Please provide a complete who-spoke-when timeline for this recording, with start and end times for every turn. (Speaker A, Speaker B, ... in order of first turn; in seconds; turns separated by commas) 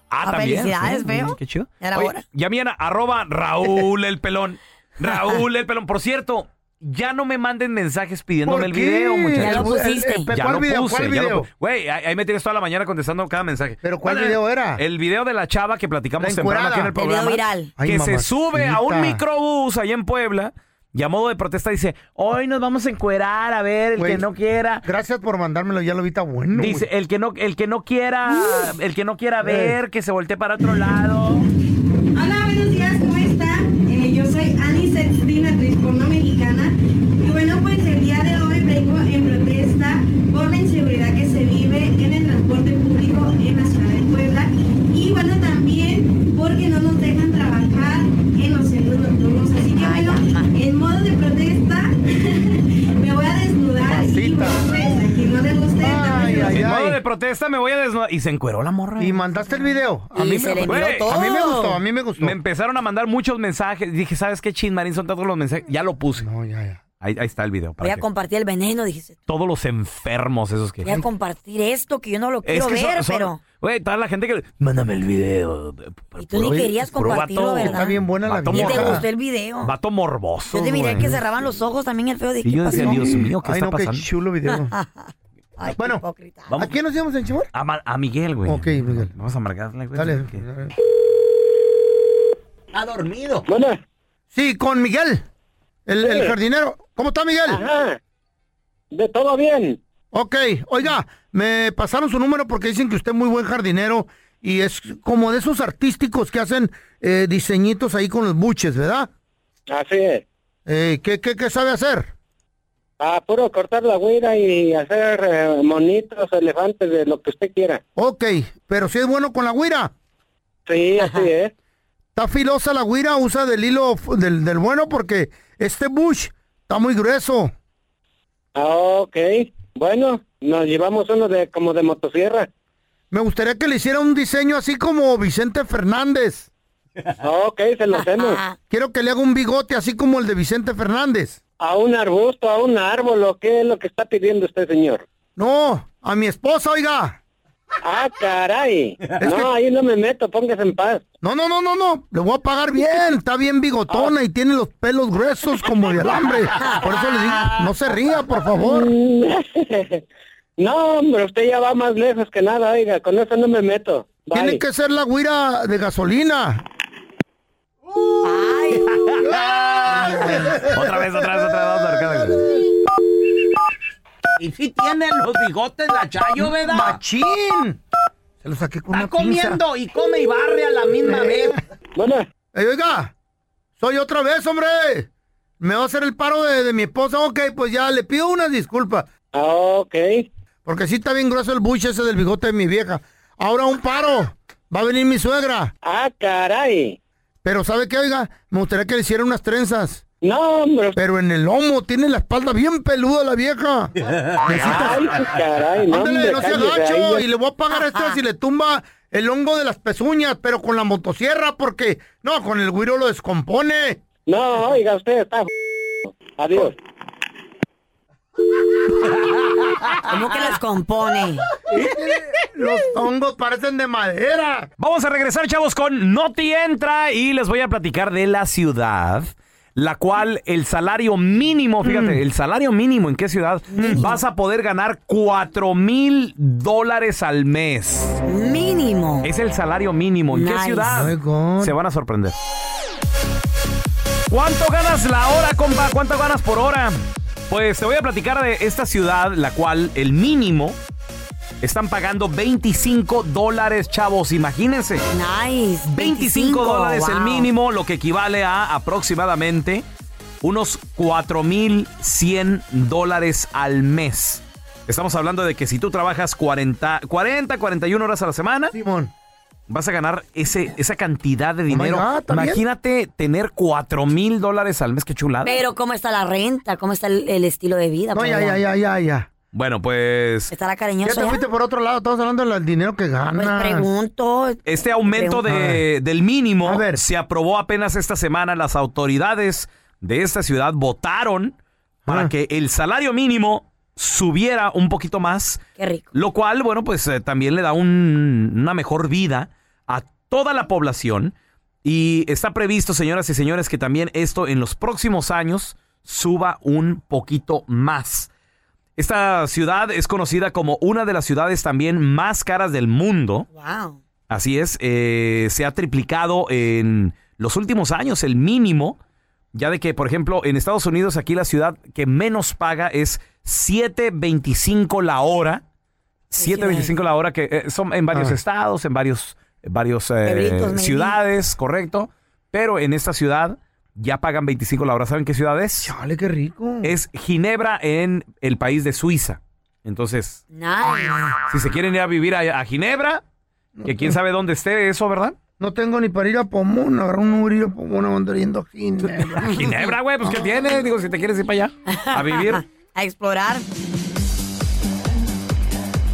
Speaker A: 0.1-9.8, Speaker B: 0.2-2.2, Speaker C: 8.4-11.5, Speaker B: 9.3-10.3, Speaker A: 10.3-24.8, Speaker C: 13.8-14.8, Speaker C: 16.2-17.1, Speaker B: 16.9-17.7, Speaker C: 17.8-19.2, Speaker C: 24.0-24.2, Speaker C: 24.8-26.9, Speaker A: 26.5-31.4, Speaker C: 29.4-29.8, Speaker D: 32.1-56.6, Speaker B: 49.6-50.5, Speaker C: 53.8-54.6, Speaker C: 55.8-57.0, Speaker A: 56.5-59.2, Speaker C: 59.0-62.4, Speaker B: 60.1-61.8, Speaker A: 60.6-61.1, Speaker A: 62.2-66.2, Speaker C: 66.2-66.8, Speaker A: 67.0-68.0, Speaker B: 67.8-69.2, Speaker A: 69.3-71.0, Speaker B: 70.8-73.4, Speaker A: 72.4-79.1, Speaker B: 76.2-79.7, Speaker C: 77.6-79.0, Speaker A: 79.6-81.2, Speaker B: 80.5-83.1, Speaker A: 82.4-84.0, Speaker C: 82.7-84.7, Speaker B: 84.5-86.7, Speaker C: 85.8-86.0, Speaker C: 86.5-87.5, Speaker A: 87.5-90.4, Speaker C: 88.5-89.1, Speaker C: 89.9-90.7, Speaker E: 92.7-93.5, Speaker F: 93.5-93.8, Speaker C: 94.3-95.2, Speaker C: 95.9-97.6, Speaker F: 96.0-96.3, Speaker F: 97.5-98.0, Speaker F: 98.9-99.8, Speaker C: 100.1-109.1, Speaker F: 109.7-110.2, Speaker C: 110.7-112.1, Speaker F: 113.0-117.8, Speaker C: 118.0-119.9, Speaker F: 120.7-121.5, Speaker B: 121.0-121.3, Speaker C: 122.1-127.5, Speaker F: 128.6-132.5, Speaker C: 133.1-136.5, Speaker F: 137.2-138.4, Speaker B: 137.9-138.6, Speaker C: 138.7-141.4, Speaker F: 141.6-145.0, Speaker C: 145.4-147.2, Speaker F: 147.8-151.1, Speaker C: 149.2-149.5, Speaker C: 151.2-158.9, Speaker F: 158.6-160.0, Speaker F: 160.6-164.6, Speaker C: 164.3-166.6, Speaker B: 168.2-168.9, Speaker C: 169.3-172.6, Speaker B: 169.9-170.4, Speaker A: 170.6-172.4, Speaker E: 174.4-177.0, Speaker C: 176.4-177.8, Speaker C: 178.4-179.6, Speaker E: 178.9-181.6, Speaker C: 181.0-181.5, Speaker F: 181.9-182.2, Speaker C: 182.5-183.1, Speaker C: 183.8-185.1, Speaker C: 185.6-189.1, Speaker F: 189.3-190.3, Speaker C: 190.7-195.7, Speaker F: 195.8-197.0, Speaker C: 197.4-200.0, Speaker F: 200.2-201.0, Speaker C: 200.9-205.2, Speaker F: 204.5-207.2, Speaker C: 205.8-214.0, Speaker B: 207.7-208.2, Speaker F: 214.3-215.5, Speaker F: 216.2-216.7, Speaker B: 220.1-221.5, Speaker C: 221.7-224.7, Speaker A: 224.8-238.2, Speaker C: 231.8-232.2, Speaker B: 233.7-234.2, Speaker C: 233.8-234.0, Speaker B: 238.2-239.3, Speaker A: 239.2-242.3, Speaker B: 240.3-241.0, Speaker C: 240.9-241.8, Speaker A: 244.3-250.8, Speaker A: 251.6-255.0, Speaker B: 255.1-257.5, Speaker A: 255.8-259.8, Speaker A: 260.4-268.7, Speaker C: 268.7-269.1, Speaker A: 269.7-275.6, Speaker C: 271.7-272.6, Speaker B: 275.4-278.6, Speaker C: 278.1-279.3, Speaker A: 279.5-280.5, Speaker B: 280.5-281.4, Speaker C: 281.0-283.9, Speaker B: 283.3-285.4, Speaker A: 284.6-295.6, Speaker C: 285.5-285.8, Speaker C: 286.6-287.0, Speaker B: 295.8-296.1, Speaker A: 296.1-308.3, Speaker A: 309.0-313.5, Speaker B: 313.5-314.0, Speaker A: 314.3-319.0, Speaker A: 319.5-325.6, Speaker A: 326.3-335.9, Speaker B: 326.4-326.9, Speaker C: 328.1-328.4, Speaker B: 330.2-331.2, Speaker C: 335.8-336.9, Speaker A: 336.8-340.4, Speaker B: 340.5-341.4, Speaker A: 341.5-343.2, Speaker C: 343.8-344.2, Speaker A: 343.8-345.4, Speaker C: 345.6-350.4, Speaker A: 349.1-352.6, Speaker B: 351.9-353.6